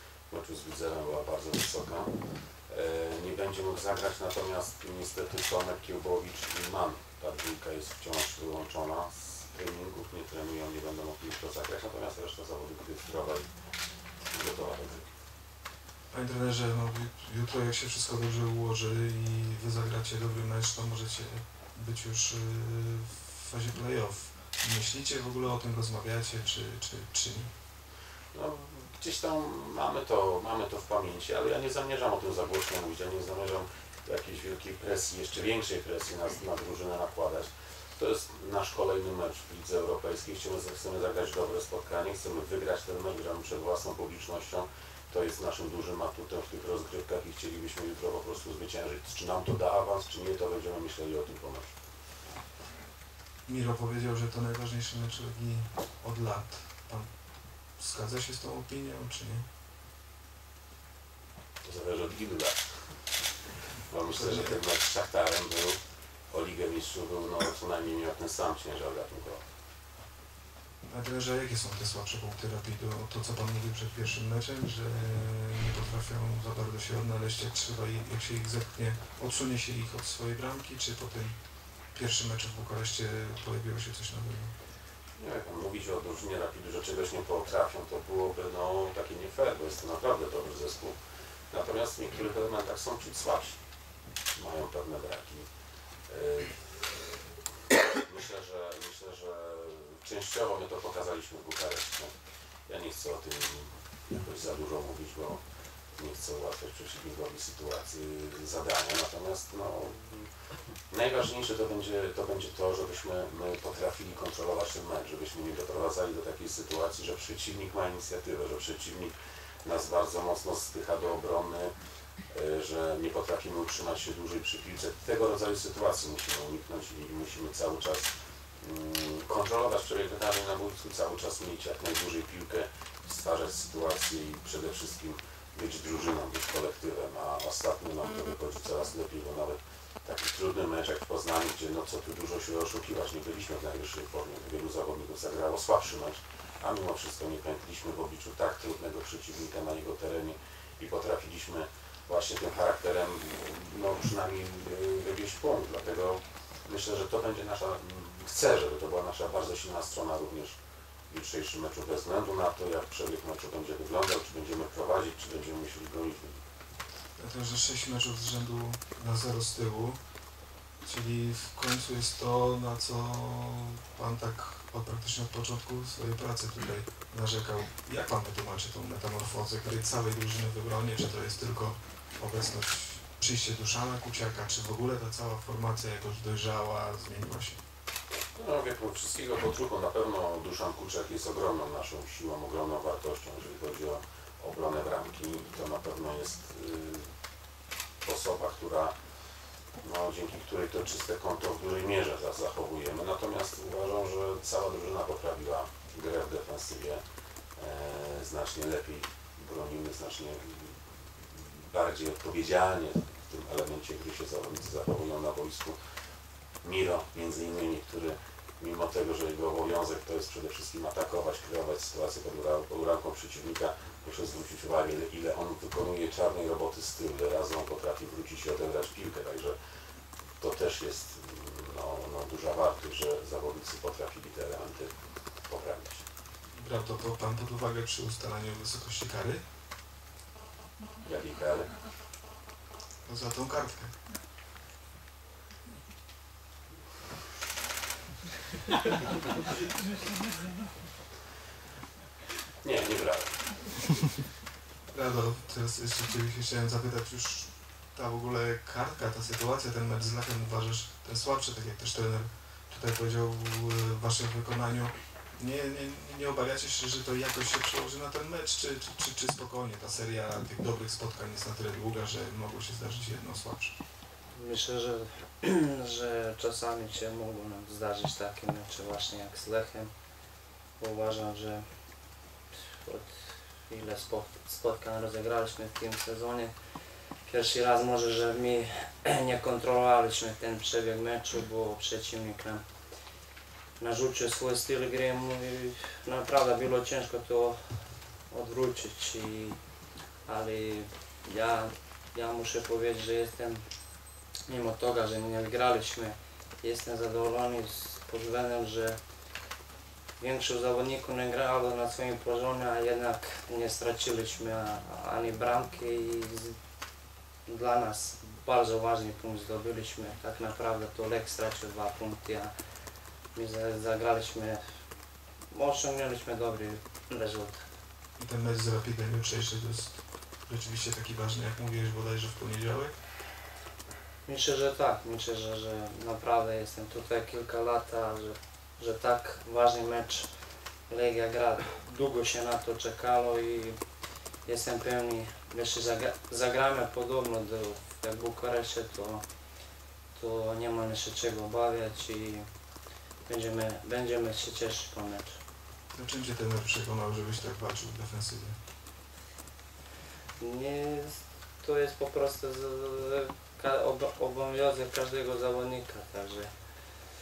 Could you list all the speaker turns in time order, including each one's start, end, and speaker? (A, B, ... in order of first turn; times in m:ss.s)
0:00.3-0:02.1 A
0:02.7-0:13.5 A
0:14.3-0:15.1 A
0:16.1-0:27.5 B
0:28.3-0:51.7 A
0:53.5-0:57.1 B
0:57.8-0:59.5 B
1:01.6-1:02.6 A
1:03.9-1:05.8 A
1:04.1-1:04.6 B
1:06.3-1:09.4 A
1:10.9-1:21.4 B
1:21.9-1:24.5 B
1:25.2-1:31.0 A
1:31.5-1:33.6 A
1:34.4-1:35.5 A
1:36.1-1:37.1 A
1:38.0-1:42.1 A
1:42.7-1:45.4 A
1:46.0-1:50.3 A
1:50.9-1:59.1 A
1:59.6-2:01.7 A
2:02.3-2:08.1 A
2:08.6-2:40.6 A
2:41.1-2:46.4 A
2:47.2-2:50.0 B
2:50.8-3:07.6 B
3:08.4-3:17.1 A
3:18.0-3:18.9 A
3:19.8-3:27.0 A
3:27.6-3:30.8 A
3:31.3-3:35.8 A
3:36.6-3:49.6 A
3:50.4-3:54.9 A
3:55.5-3:56.0 A
3:56.6-3:59.4 B
4:01.0-4:01.7 A
4:03.1-4:03.9 B
4:12.6-4:13.9 A
4:14.9-4:33.7 B
4:34.3-4:39.9 C
4:40.8-4:41.6 C
4:42.6-4:46.5 C
4:47.2-4:52.6 C
4:53.8-4:57.6 C
4:58.3-4:59.6 C
5:00.3-5:03.6 C
5:04.5-5:09.0 C
5:10.2-5:16.6 C
5:17.5-5:22.5 C
5:23.4-5:24.6 C
5:25.5-5:27.6 C
5:28.2-5:32.9 B
5:34.3-5:40.3 C
5:40.9-5:43.8 C
5:44.5-5:49.2 C
5:50.2-5:52.5 C
5:53.3-5:55.4 C
5:55.9-5:58.6 B
6:00.4-6:06.5 C